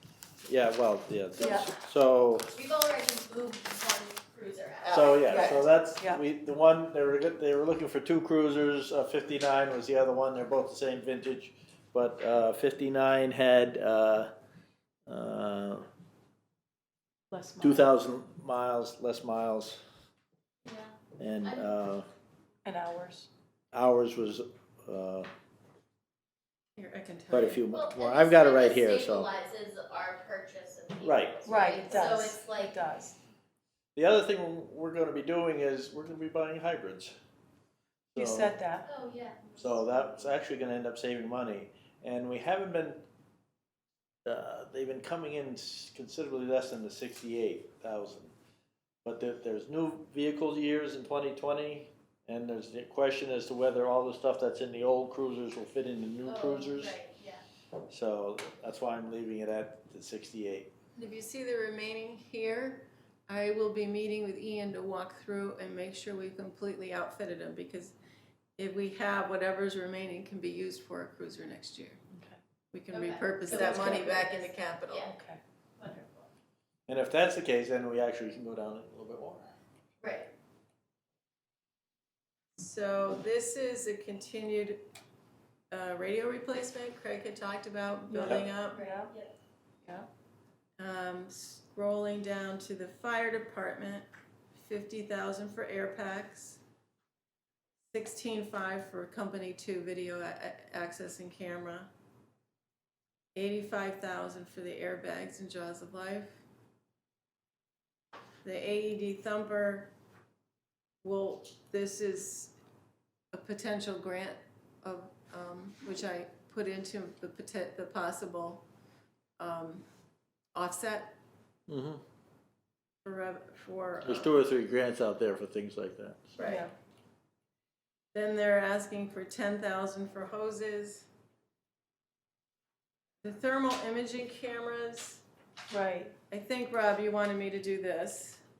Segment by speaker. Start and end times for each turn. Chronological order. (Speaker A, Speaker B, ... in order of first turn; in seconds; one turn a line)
Speaker A: 0.5-2.5
Speaker B: 2.5-5.7
Speaker A: 4.8-14.3
Speaker C: 5.2-6.2
Speaker A: 15.1-15.9
Speaker C: 17.3-17.9
Speaker A: 17.6-19.8
Speaker B: 20.6-21.7
Speaker A: 21.2-22.1
Speaker C: 22.6-23.3
Speaker A: 23.7-25.3
Speaker D: 26.8-27.6
Speaker A: 27.3-29.3
Speaker B: 27.7-32.8
Speaker A: 31.0-31.4
Speaker C: 31.4-33.2
Speaker A: 34.0-37.1
Speaker A: 38.1-38.5
Speaker C: 38.1-38.9
Speaker B: 38.8-39.8
Speaker A: 39.6-43.0
Speaker A: 44.2-48.3
Speaker A: 49.0-57.0
Speaker B: 56.2-57.4
Speaker A: 57.9-60.7
Speaker D: 61.0-67.9
Speaker D: 68.6-72.0
Speaker C: 72.1-72.4
Speaker D: 72.7-75.1
Speaker B: 72.9-75.1
Speaker A: 73.5-74.1
Speaker C: 75.1-75.4
Speaker B: 75.8-76.3
Speaker A: 76.9-79.5
Speaker B: 80.0-80.3
Speaker D: 82.6-84.8
Speaker D: 85.7-88.8
Speaker C: 88.1-89.1
Speaker B: 88.7-89.3
Speaker D: 90.8-96.6
Speaker D: 97.9-101.9
Speaker D: 103.3-106.4
Speaker D: 108.4-109.9
Speaker D: 111.0-112.5
Speaker D: 113.3-118.6
Speaker D: 119.4-119.8
Speaker D: 120.5-121.2
Speaker A: 121.7-122.0
Speaker D: 123.0-124.3
Speaker A: 124.0-126.3
Speaker D: 126.4-126.7
Speaker C: 126.4-126.7
Speaker D: 128.1-131.1
Speaker D: 133.2-135.2
Speaker C: 135.7-136.1
Speaker D: 136.3-138.4